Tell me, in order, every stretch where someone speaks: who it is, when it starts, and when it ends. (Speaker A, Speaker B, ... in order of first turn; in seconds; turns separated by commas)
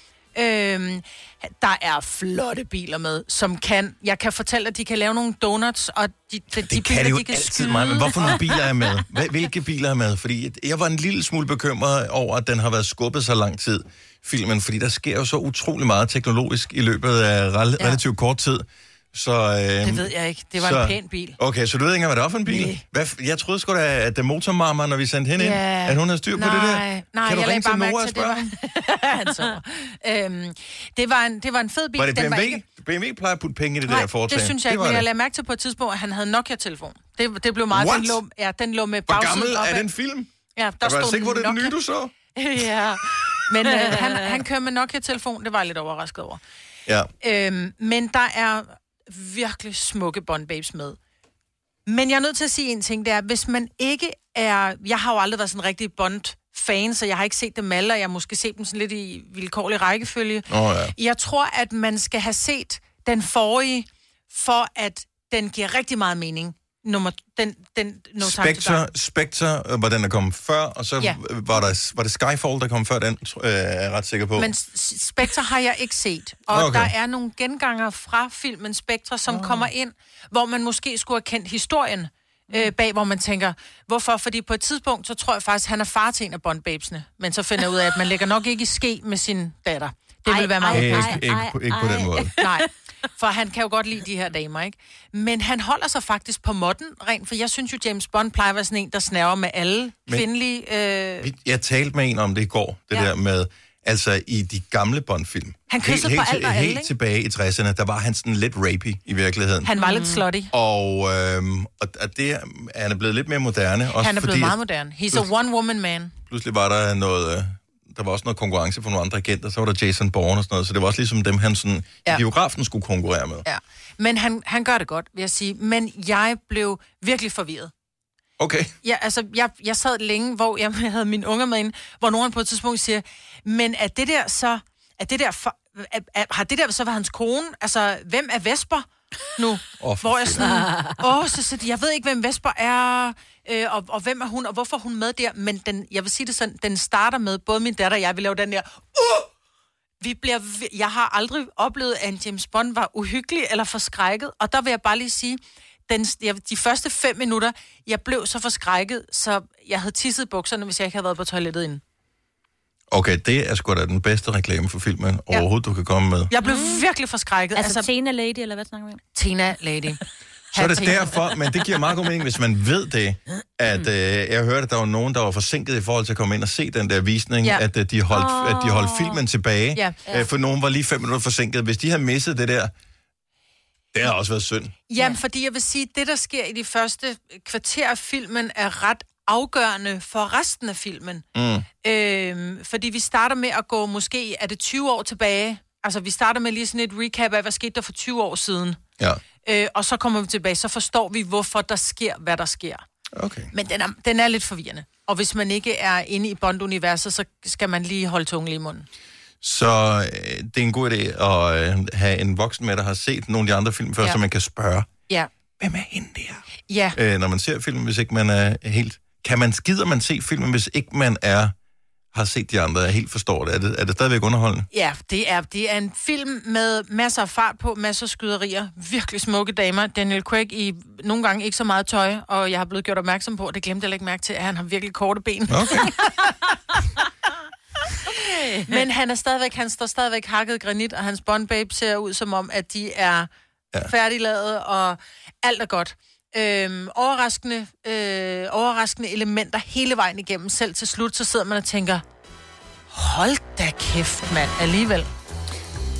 Speaker A: 0.3-8.4, Speaker B: 6.5-28.5, Speaker C: 7.8-8.4, Speaker A: 19.8-21.4, Speaker A: 22.5-22.8, Speaker A: 25.4-32.6, Speaker B: 32.0-35.0, Speaker A: 33.9-39.9, Speaker B: 37.7-38.2, Speaker B: 39.1-40.3, Speaker A: 40.5-41.7, Speaker B: 40.8-42.1, Speaker A: 42.3-46.4, Speaker A: 47.2-51.0, Speaker A: 51.9-68.8, Speaker B: 60.5-60.9, Speaker B: 68.2-74.5, Speaker A: 74.4-91.2, Speaker B: 76.5-76.9, Speaker B: 79.3-79.7, Speaker C: 90.2-92.6, Speaker B: 90.7-92.3, Speaker A: 92.4-101.3, Speaker B: 101.2-109.7, Speaker A: 105.7-106.9, Speaker A: 109.6-110.5, Speaker C: 109.8-110.2, Speaker B: 110.5-114.6, Speaker A: 114.0-116.1, Speaker B: 116.3-123.4, Speaker A: 123.4-127.7, Speaker B: 128.4-128.7, Speaker A: 128.8-149.3, Speaker B: 139.8-140.5, Speaker C: 140.4-140.9, Speaker A: 150.0-161.8, Speaker B: 162.9-166.3, Speaker A: 166.3-167.9, Speaker C: 166.4-166.8, Speaker C: 167.5-169.0, Speaker A: 169.1-170.0, Speaker A: 170.5-171.1, Speaker B: 170.5-182.7, Speaker C: 178.1-179.2, Speaker B: 183.9-184.7, Speaker A: 184.9-191.2, Speaker B: 191.3-191.7, Speaker A: 191.8-198.8, Speaker A: 199.4-202.8, Speaker B: 203.1-203.5, Speaker A: 203.5-208.9, Speaker B: 209.4-214.9, Speaker B: 215.6-216.4, Speaker A: 216.7-217.0, Speaker B: 216.9-221.5, Speaker B: 222.1-224.7, Speaker A: 224.7-236.3, Speaker B: 235.5-235.9, Speaker A: 238.0-243.3, Speaker C: 238.2-238.8, Speaker A: 243.8-252.0, Speaker A: 252.9-255.1